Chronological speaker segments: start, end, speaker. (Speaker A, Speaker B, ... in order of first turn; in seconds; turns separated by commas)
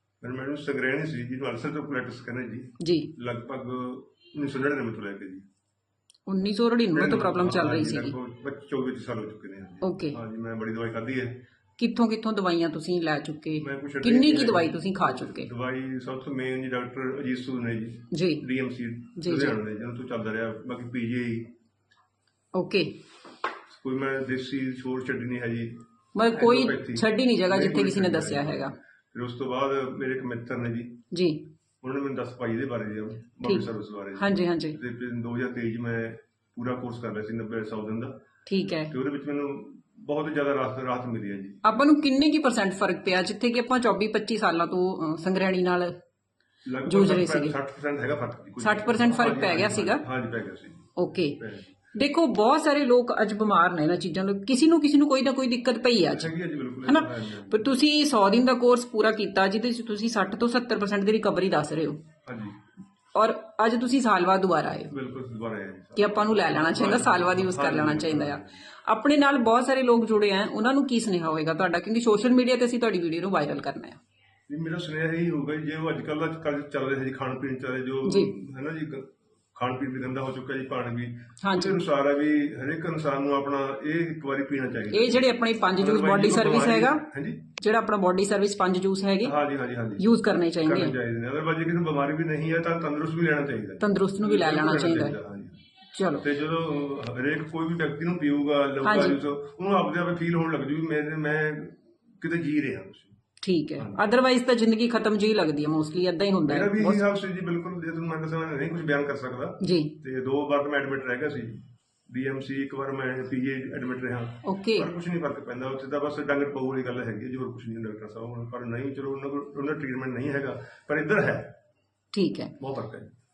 Speaker A: 0.2-5.5, Speaker B: 2.8-3.1, Speaker B: 6.3-8.1, Speaker A: 6.9-11.4, Speaker B: 9.8-10.2, Speaker B: 11.8-15.5, Speaker A: 13.6-21.5, Speaker B: 18.1-18.4, Speaker B: 19.2-19.6, Speaker B: 22.5-23.0, Speaker A: 23.7-31.0, Speaker B: 26.1-28.7, Speaker B: 31.1-31.4, Speaker A: 31.8-38.2, Speaker B: 33.4-34.8, Speaker B: 38.5-38.9, Speaker A: 38.9-41.6, Speaker B: 41.6-46.0, Speaker A: 46.7-51.8, Speaker B: 46.9-47.6, Speaker B: 48.6-50.0, Speaker B: 51.0-51.4, Speaker B: 51.9-56.3, Speaker A: 56.1-57.6, Speaker B: 56.9-62.0, Speaker A: 62.2-62.6, Speaker B: 63.1-64.9, Speaker A: 64.9-68.6, Speaker B: 66.0-74.0, Speaker A: 74.5-87.5, Speaker B: 78.1-78.3, Speaker B: 81.4-81.8, Speaker B: 84.9-87.0, Speaker B: 87.6-89.3, Speaker A: 89.2-90.1, Speaker B: 90.0-91.0, Speaker A: 90.6-95.6, Speaker B: 93.8-95.2, Speaker B: 96.0-96.2, Speaker A: 96.2-103.2, Speaker B: 98.8-99.2, Speaker B: 103.4-107.0, Speaker A: 106.5-121.5, Speaker B: 109.6-110.0, Speaker B: 114.4-114.9, Speaker B: 122.1-122.5, Speaker A: 122.6-123.1